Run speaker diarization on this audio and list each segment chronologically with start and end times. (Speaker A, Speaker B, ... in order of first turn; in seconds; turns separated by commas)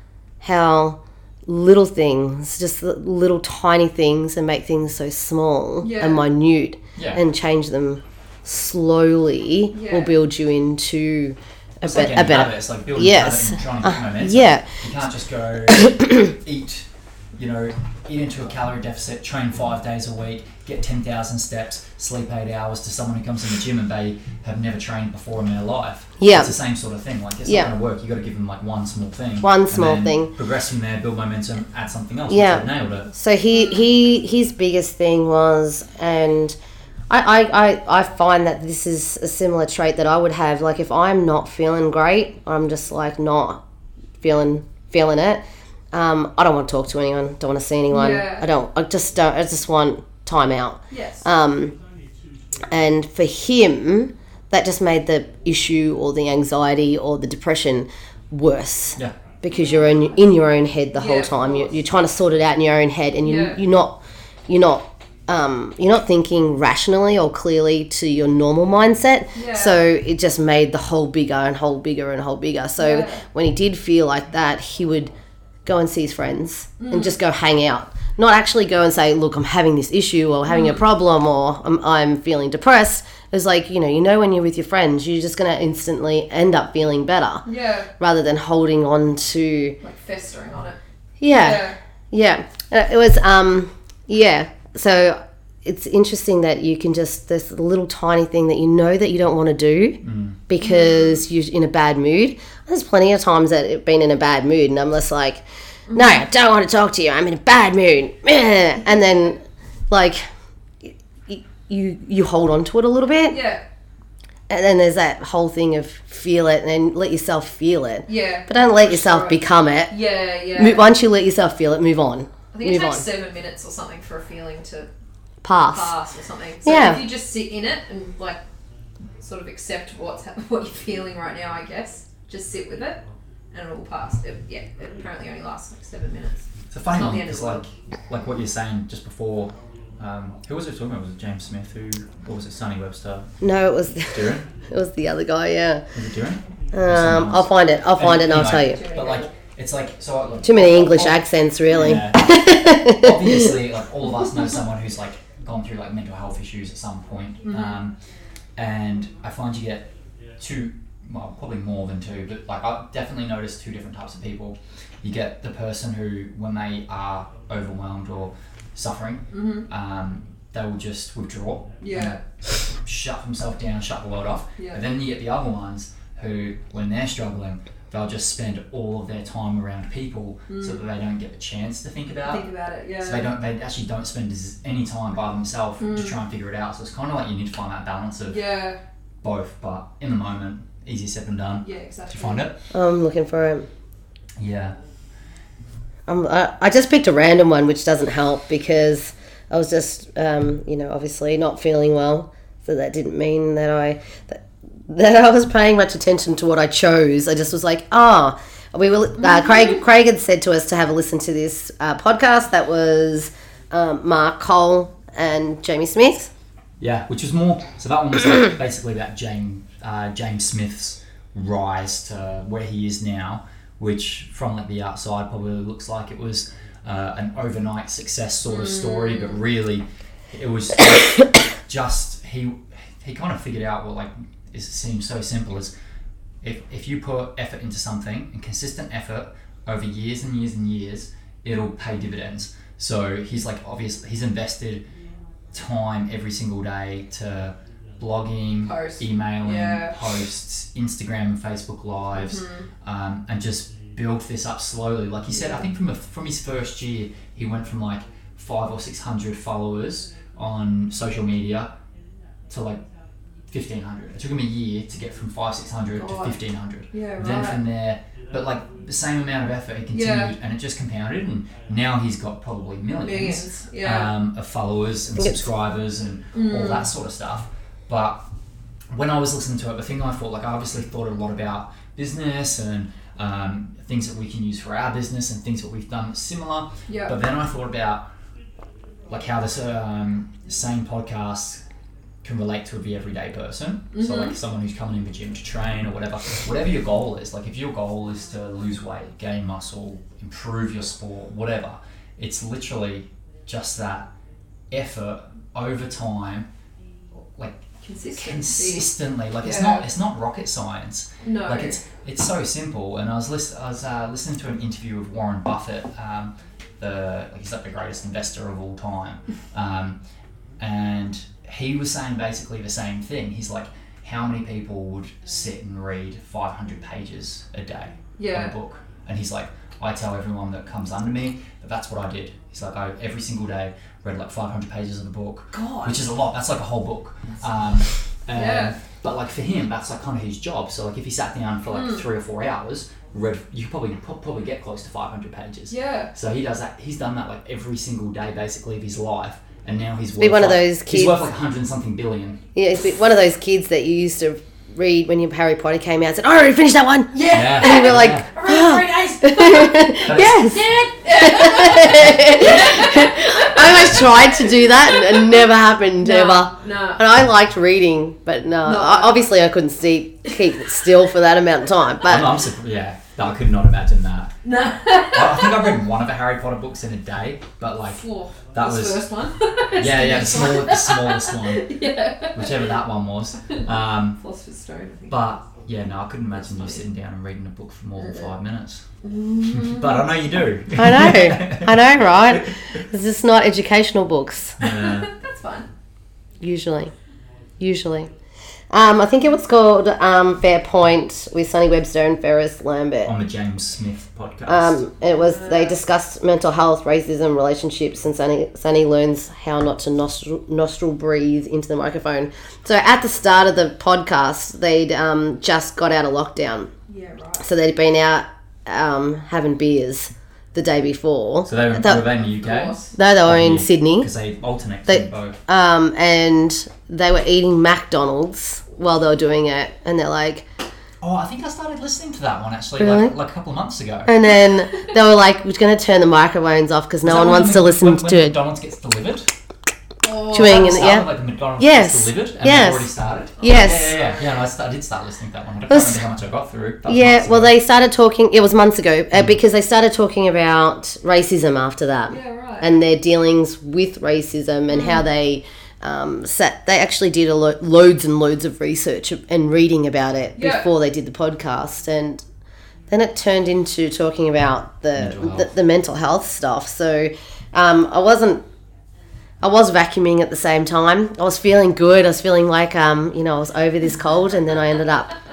Speaker A: 0.4-14.7, Speaker B: 5.8-6.3, Speaker C: 7.0-7.2, Speaker B: 9.7-10.1, Speaker C: 11.8-16.9, Speaker C: 17.4-33.1, Speaker A: 26.2-26.5, Speaker A: 27.4-27.7, Speaker A: 29.4-30.3, Speaker A: 32.3-36.6, Speaker A: 37.1-43.6, Speaker A: 44.2-51.8, Speaker B: 47.9-48.4, Speaker B: 50.9-51.2, Speaker A: 52.7-75.1, Speaker B: 59.5-60.0, Speaker B: 61.0-61.8, Speaker B: 63.2-63.6, Speaker B: 69.3-69.8, Speaker B: 72.8-73.2, Speaker A: 75.7-87.4, Speaker B: 76.8-77.1, Speaker B: 80.5-80.8, Speaker B: 87.5-87.9, Speaker A: 88.0-89.8, Speaker B: 89.8-91.8, Speaker A: 91.2-109.4, Speaker C: 100.0-100.4, Speaker B: 100.6-101.2, Speaker B: 105.9-106.2, Speaker A: 109.9-110.2, Speaker A: 110.8-113.4, Speaker B: 113.3-113.6, Speaker A: 114.5-119.9, Speaker B: 118.1-120.9, Speaker A: 120.5-123.1, Speaker B: 122.5-124.9, Speaker A: 125.4-125.9, Speaker B: 125.7-128.4, Speaker A: 126.6-127.0, Speaker B: 129.2-137.7, Speaker C: 136.7-143.3, Speaker A: 143.4-145.8, Speaker C: 144.1-144.5, Speaker C: 145.9-157.9, Speaker A: 146.7-148.8, Speaker B: 148.5-149.3, Speaker A: 150.4-153.5, Speaker B: 157.4-157.8, Speaker C: 158.6-182.4, Speaker B: 169.3-169.7, Speaker B: 171.8-172.2, Speaker B: 180.5-180.8, Speaker B: 182.2-183.3, Speaker C: 183.0-188.4, Speaker B: 185.8-186.2, Speaker B: 188.3-188.8, Speaker C: 189.2-192.6, Speaker B: 191.6-192.5, Speaker A: 192.7-193.7, Speaker C: 194.4-194.8, Speaker A: 196.1-216.3, Speaker C: 216.8-235.7, Speaker B: 228.5-229.4, Speaker C: 236.4-244.8, Speaker C: 245.5-261.7, Speaker B: 248.7-249.9, Speaker B: 252.2-252.7, Speaker C: 262.5-262.8, Speaker C: 263.5-278.2, Speaker B: 266.0-266.4, Speaker B: 266.9-267.6, Speaker B: 269.9-270.3, Speaker B: 273.0-274.1, Speaker B: 276.3-276.9, Speaker C: 278.9-288.1, Speaker B: 286.9-287.1, Speaker C: 289.1-291.6, Speaker C: 292.2-304.1, Speaker B: 293.9-294.3, Speaker C: 304.7-306.5, Speaker C: 307.3-307.6, Speaker B: 307.8-308.9, Speaker C: 308.1-320.0, Speaker B: 309.4-309.9, Speaker B: 311.2-311.8, Speaker C: 320.6-352.4, Speaker B: 328.2-328.5, Speaker B: 335.5-336.1, Speaker B: 338.3-338.7, Speaker B: 341.7-342.1, Speaker B: 345.7-346.1, Speaker A: 350.2-351.2, Speaker A: 352.6-372.3, Speaker B: 357.1-365.3, Speaker C: 357.3-358.3, Speaker C: 360.1-360.4, Speaker B: 366.0-367.0, Speaker B: 368.6-369.3, Speaker C: 372.1-374.3, Speaker B: 374.4-375.7, Speaker C: 375.1-379.0, Speaker B: 377.9-382.7, Speaker C: 379.8-381.7, Speaker C: 382.3-384.2, Speaker B: 384.2-385.3, Speaker C: 385.1-388.9, Speaker B: 386.3-386.8, Speaker B: 388.0-388.3, Speaker B: 389.0-390.1, Speaker C: 389.4-392.6, Speaker A: 390.8-394.6, Speaker C: 394.6-395.1, Speaker B: 394.6-395.7, Speaker A: 396.4-396.9, Speaker A: 397.6-398.1, Speaker A: 398.7-403.1, Speaker C: 403.1-404.8, Speaker A: 404.5-416.7, Speaker B: 405.0-405.8, Speaker B: 416.9-417.5, Speaker A: 417.4-422.1, Speaker C: 421.4-425.4, Speaker B: 422.2-422.9, Speaker A: 422.9-424.1, Speaker A: 424.9-430.4, Speaker C: 431.0-434.1, Speaker A: 432.8-433.1, Speaker A: 434.1-438.4, Speaker C: 437.0-439.3, Speaker B: 440.0-441.0, Speaker A: 440.3-442.9, Speaker C: 440.3-447.6, Speaker A: 443.4-444.0, Speaker B: 443.5-444.4, Speaker A: 445.7-446.0, Speaker A: 446.8-462.2, Speaker B: 452.1-452.7, Speaker B: 454.7-455.0, Speaker B: 460.4-460.7, Speaker A: 462.9-468.4, Speaker C: 464.9-465.5, Speaker A: 469.4-475.1